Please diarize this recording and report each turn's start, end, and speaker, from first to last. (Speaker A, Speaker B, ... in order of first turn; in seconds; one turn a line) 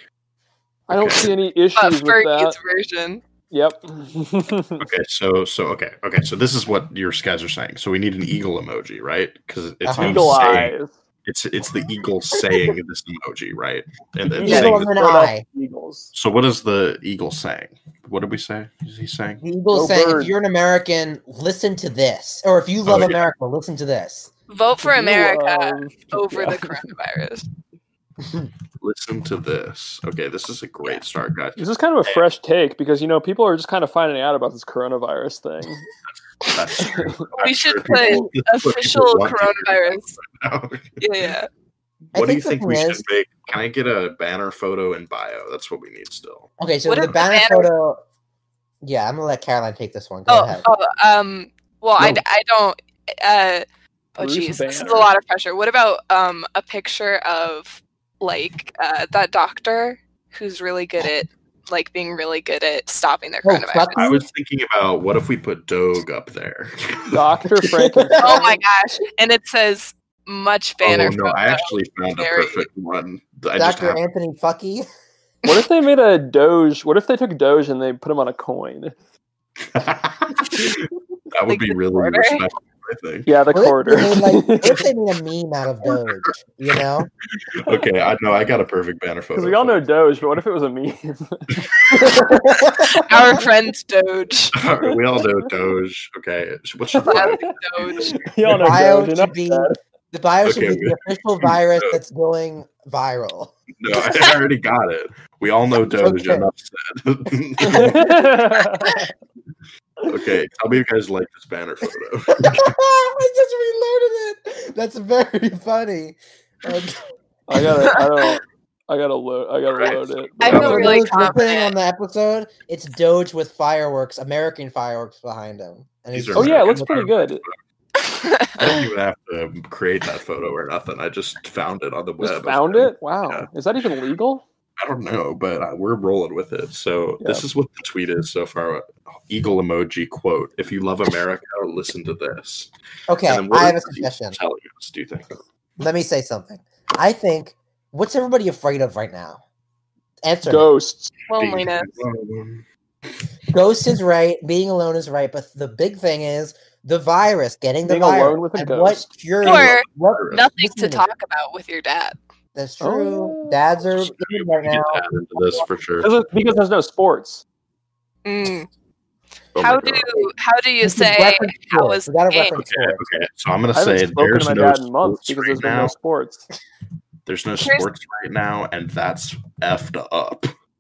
Speaker A: 0.9-2.6
Speaker B: 0.9-1.3
Speaker C: 1.8-3.2
Speaker A: 3.5-4.8
Speaker B: 4.8-15.0
Speaker D: 9.8-10.6
Speaker A: 9.9-10.9
Speaker A: 14.3-16.1
Speaker D: 14.4-15.4
Speaker B: 16.1-19.4
Speaker D: 19.4-24.3
Speaker A: 19.7-20.3
Speaker B: 22.9-23.2
Speaker C: 24.5-27.4
Speaker A: 24.8-26.9
Speaker B: 28.8-32.2
Speaker A: 31.6-35.9
Speaker B: 36.4-41.0
Speaker A: 36.8-37.2
Speaker C: 37.4-40.2
Speaker C: 41.0-41.5
Speaker D: 42.1-43.0
Speaker B: 42.1-46.5
Speaker D: 46.6-48.0
Speaker C: 46.9-47.7
Speaker D: 48.8-50.7
Speaker C: 50.3-64.2
Speaker A: 54.2-55.1
Speaker D: 63.5-64.2
Speaker B: 64.0-67.2
Speaker A: 67.1-68.4
Speaker D: 67.6-68.6
Speaker C: 68.2-72.7
Speaker B: 70.8-74.0
Speaker D: 73.5-74.9
Speaker A: 75.5-79.0
Speaker B: 79.6-83.3
Speaker C: 81.5-82.4
Speaker A: 83.3-84.9
Speaker D: 83.5-87.1
Speaker B: 87.5-89.8
Speaker A: 89.3-92.3
Speaker B: 91.7-92.2
Speaker D: 92.3-93.0
Speaker C: 92.7-94.5
Speaker B: 94.5-98.8
Speaker A: 97.0-99.8
Speaker C: 97.0-98.1
Speaker D: 98.6-103.5
Speaker B: 100.4-102.0
Speaker B: 103.8-108.2
Speaker D: 106.0-106.5
Speaker D: 107.6-108.2
Speaker A: 107.7-109.0
Speaker B: 110.0-112.8
Speaker D: 112.3-117.0
Speaker A: 117.5-121.2
Speaker B: 119.7-121.0
Speaker C: 120.4-121.7
Speaker D: 120.5-126.9
Speaker B: 126.1-127.6
Speaker A: 126.3-127.4
Speaker C: 128.2-128.8
Speaker B: 128.6-133.5
Speaker A: 132.2-134.4
Speaker B: 134.8-142.7
Speaker D: 143.1-144.4
Speaker B: 143.2-145.4
Speaker D: 145.8-149.4
Speaker D: 150.2-150.7
Speaker A: 150.4-151.1
Speaker C: 151.3-152.0
Speaker B: 151.4-152.7
Speaker D: 153.5-161.1
Speaker A: 157.8-159.1
Speaker C: 159.4-162.2
Speaker B: 159.4-160.5
Speaker D: 162.6-165.0
Speaker A: 162.8-163.6
Speaker B: 164.0-166.1
Speaker A: 166.0-167.4
Speaker C: 168.2-168.7
Speaker B: 169.6-170.1
Speaker C: 169.6-172.6
Speaker D: 170.8-173.0
Speaker B: 172.6-175.9
Speaker A: 173.8-176.5
Speaker B: 177.3-180.5
Speaker C: 177.6-177.9